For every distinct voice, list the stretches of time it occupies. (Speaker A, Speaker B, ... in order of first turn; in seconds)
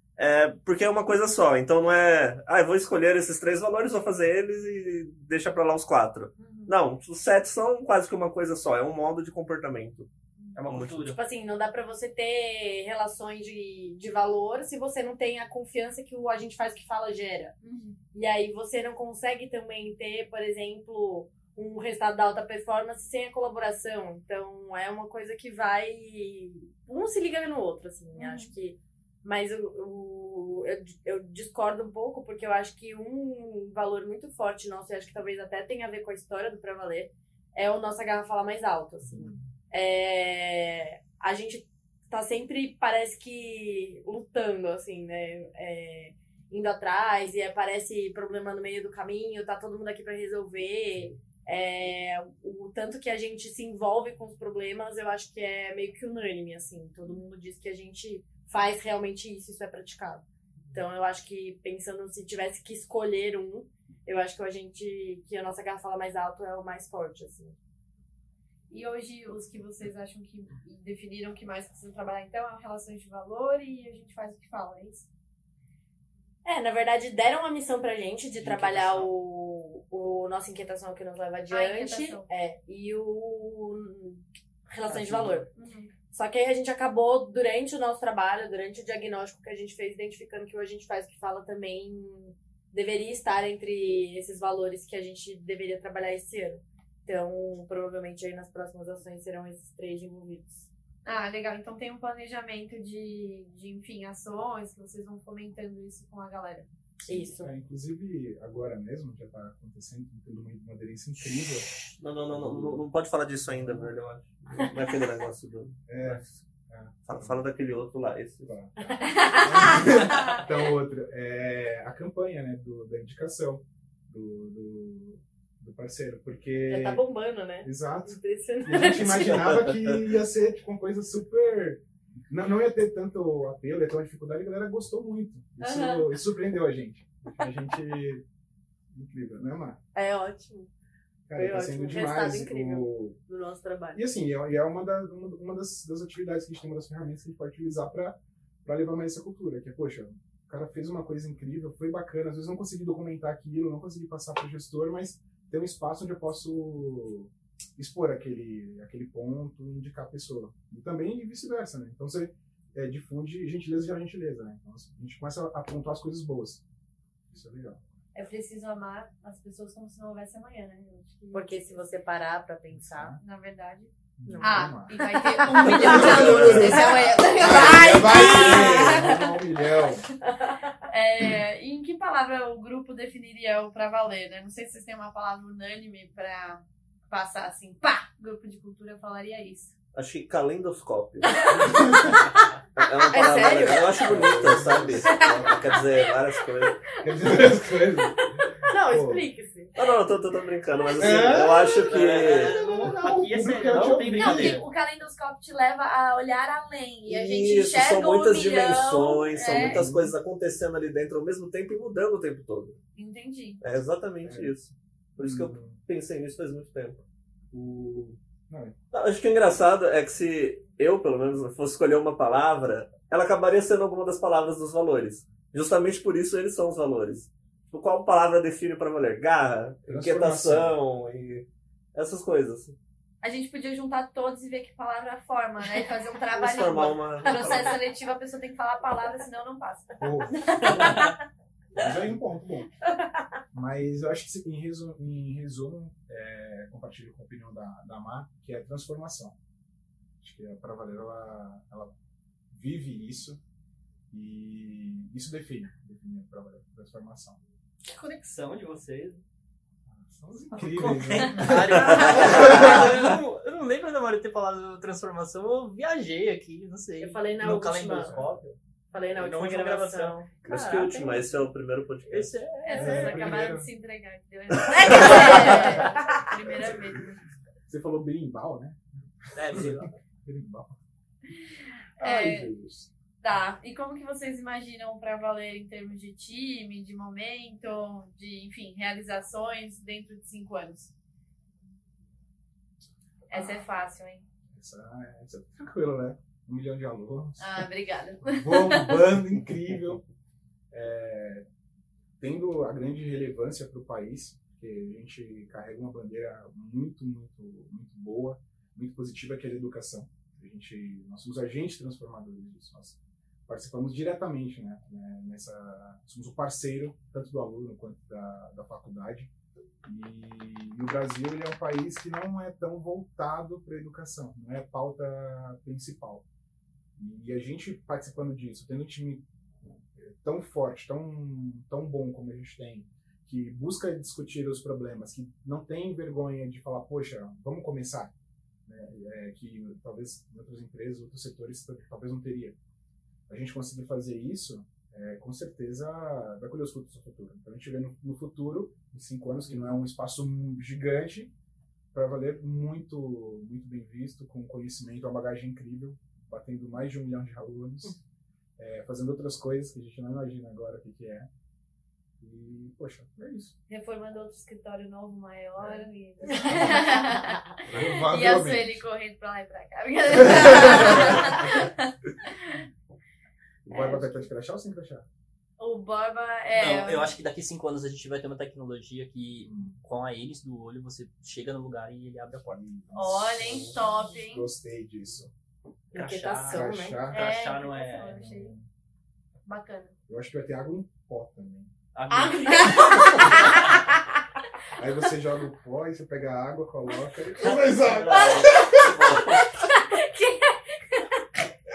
Speaker A: 0.2-10.1, 10.7-11.2, 112.0-116.4, 117.0-118.5, 175.8-176.9, 189.9-192.0, 192.8-196.8, 199.8-202.6, 203.7-204.0, 207.1-212.8, 213.6-217.0, 218.9-232.8, 236.3-237.8, 261.9-262.5, 270.4-272.4, 274.6-275.4, 397.9-399.7
Speaker B: 6.4-6.7, 17.6-18.0, 28.2-28.5, 68.7-75.1, 81.5-82.3, 85.5-86.0, 101.0-106.7, 119.1-120.4, 135.6-136.1, 168.2-171.9, 173.2-179.4, 180.9-189.8, 191.2-192.2, 196.8-198.3, 204.1-209.8, 212.9-213.6, 233.2-241.2, 272.6-277.2, 282.0-282.6, 283.2-290.9, 293.3-294.2, 297.4-299.1, 363.7-372.6, 375.6-377.2, 382.9-384.5, 387.1-388.5, 389.5-389.9, 392.3-393.4, 398.2-398.9, 399.6-401.2
Speaker C: 10.6-11.2, 78.4-79.1, 84.9-85.5, 111.2-112.8, 201.9-204.7, 257.8-259.2, 260.5-268.6, 269.1-271.3, 272.1-273.4, 279.3-280.0, 376.5-382.6, 385.9-388.3, 391.9-392.8, 393.3-393.8, 397.4-398.2
Speaker D: 11.1-17.6, 18.1-67.6, 76.5-85.5, 86.1-100.7, 107.1-107.5, 119.0-119.5, 126.7-129.7, 139.9-140.7, 141.4-144.0, 171.3-173.2, 174.4-179.0, 193.1-194.4, 198.7-199.7, 267.0-268.3, 268.9-270.3, 275.0-276.0, 385.9-387.1, 392.1-393.4
Speaker E: 39.1-39.5, 107.1-111.7, 113.5-113.9, 115.9-117.5, 118.4-127.0, 127.6-138.2, 138.9-139.8, 141.3-143.2, 143.9-166.6, 167.3-167.8, 172.7-173.2, 174.2-175.0, 175.7-176.8, 177.4-180.1, 191.7-192.1, 194.0-195.6, 197.0-199.3, 201.0-204.6, 209.4-210.2, 214.2-214.6, 215.2-215.8, 217.5-218.8, 229.9-230.8, 240.0-241.2, 241.7-242.7, 243.5-249.4, 250.2-251.9, 252.5-253.4, 254.1-257.4, 259.9-263.0, 272.7-273.7, 275.0-275.5, 276.6-276.9, 277.7-280.8, 282.0-282.9, 294.5-297.7, 298.2-300.0, 300.7-301.5, 302.2-319.3, 319.8-326.2, 327.0-329.3, 329.9-338.1, 338.7-342.6, 343.3-351.3, 351.9-358.0, 358.6-361.3, 362.2-363.6, 366.4-366.8, 367.7-368.9, 370.2-371.7, 373.7-375.1, 379.4-379.8, 382.5-385.3, 386.5-387.3, 388.1-388.7, 390.1-391.7, 392.8-393.4, 394.8-398.9